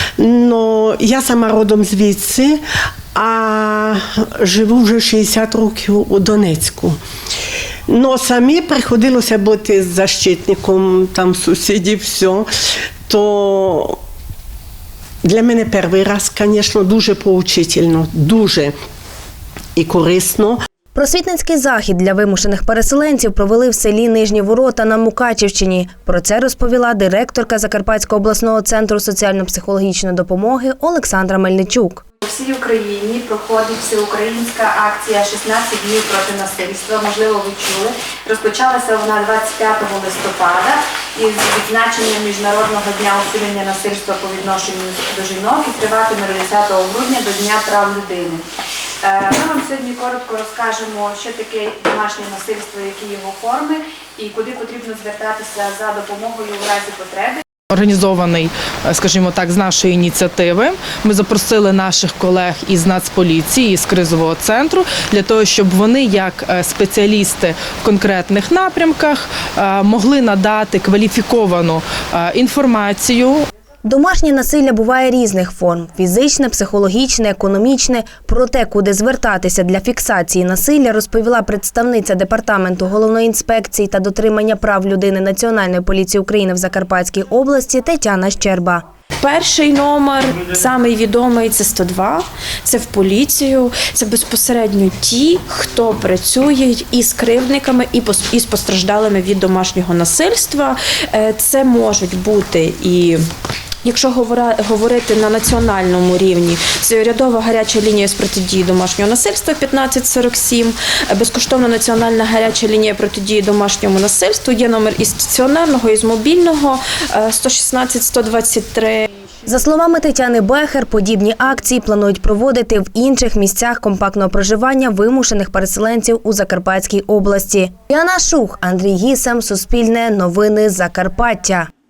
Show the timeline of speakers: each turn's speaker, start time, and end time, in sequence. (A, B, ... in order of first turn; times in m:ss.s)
0:00.2-0:02.6 A
0:03.2-0:07.0 A
0:07.9-0:12.5 A
0:13.1-0:14.0 A
0:15.2-0:18.7 A
0:19.8-0:20.6 A
0:20.9-0:32.0 B
0:32.2-0:48.4 C
0:49.0-0:57.4 C
0:57.7-1:13.5 D
1:13.8-1:28.8 B
1:29.2-1:43.2 E
1:43.8-1:59.1 E
1:59.5-2:11.7 B